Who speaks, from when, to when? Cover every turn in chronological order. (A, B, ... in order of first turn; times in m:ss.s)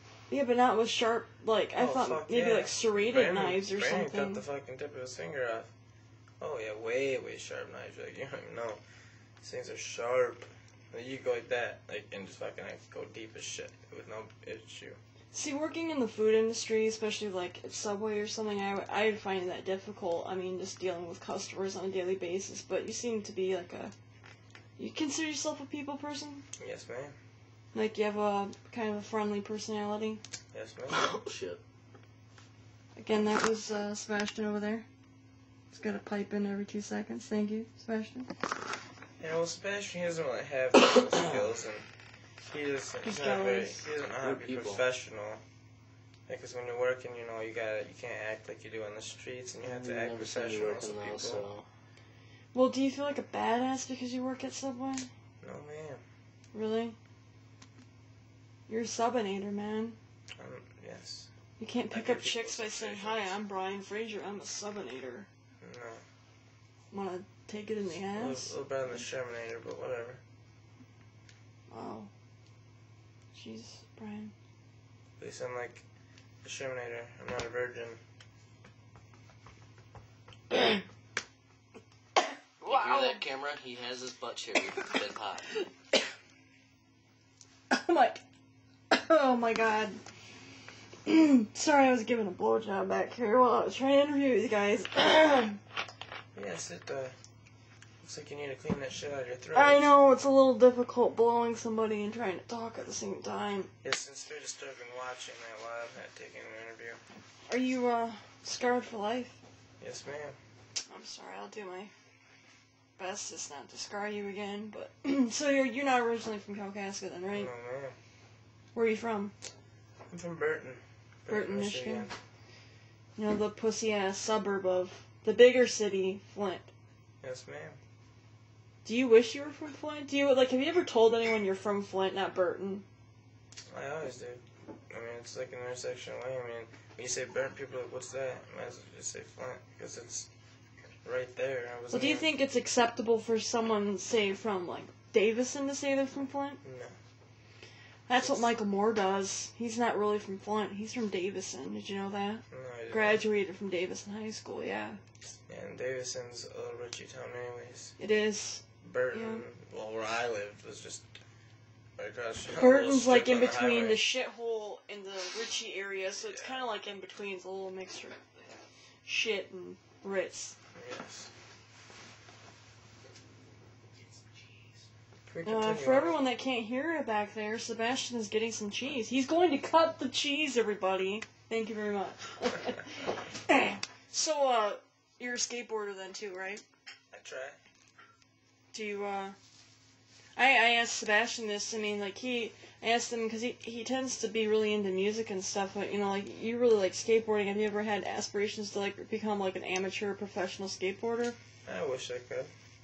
0:00.3-0:04.4 A
0:01.8-0:05.7 B
0:06.4-0:08.8 B
0:09.4-0:15.0 B
0:15.3-0:23.9 A
0:24.8-0:26.4 A
0:26.6-0:27.2 B
0:27.7-0:30.2 A
0:30.5-0:31.0 B
0:30.9-0:31.6 C
0:33.0-0:34.8 A
0:35.7-0:38.3 A
0:39.2-0:41.9 B
0:40.9-0:41.5 C
0:42.4-0:45.4 B
0:43.0-0:43.8 A
0:44.2-0:44.8 C
0:46.3-0:51.4 B
0:49.6-0:51.7 C
0:52.5-0:55.1 A
0:55.4-0:56.0 B
0:56.5-0:57.0 A
0:58.7-1:00.0 A
1:00.4-1:01.3 B
1:01.6-1:05.3 A
1:01.9-1:03.3 B
1:05.6-1:06.0 B
1:06.9-1:08.6 A
1:08.1-1:10.2 B
1:11.7-1:12.1 A
1:13.3-1:14.3 A
1:15.2-1:15.8 B
1:16.4-1:18.0 B
1:20.5-1:20.8 A
1:22.6-1:23.2 A
1:22.6-1:25.5 C
1:27.7-1:28.2 A
1:28.9-1:30.0 A
1:31.0-1:35.6 A
1:36.3-1:37.2 B
1:38.0-1:39.9 B
1:39.5-1:43.7 A
1:43.8-1:47.0 B
1:47.5-1:49.4 A
1:49.8-1:50.4 B
1:50.9-1:51.9 A
1:53.0-1:57.5 A
1:57.3-1:58.0 B
1:58.7-1:59.3 A
2:00.1-2:02.1 B
2:01.3-2:02.1 A
2:03.2-2:06.7 A
2:07.2-2:07.8 B
2:08.8-2:12.8 A
2:13.7-2:20.3 B
2:21.0-2:22.3 B
2:21.9-2:26.6 A
2:26.6-2:26.9 B
2:28.1-2:35.0 A
2:28.2-2:28.4 B
2:32.5-2:33.2 B
2:35.5-2:38.0 B
2:38.0-2:39.4 A
2:38.8-2:41.1 B
2:42.0-2:44.0 B
2:42.5-2:48.2 A
2:46.2-2:46.6 B
2:49.0-2:50.6 A
2:50.8-2:51.3 B
2:55.2-2:56.2 B
2:55.4-3:06.6 A
3:07.1-3:07.6 B
3:08.7-3:09.4 A
3:10.4-3:21.4 A
3:21.6-3:22.5 B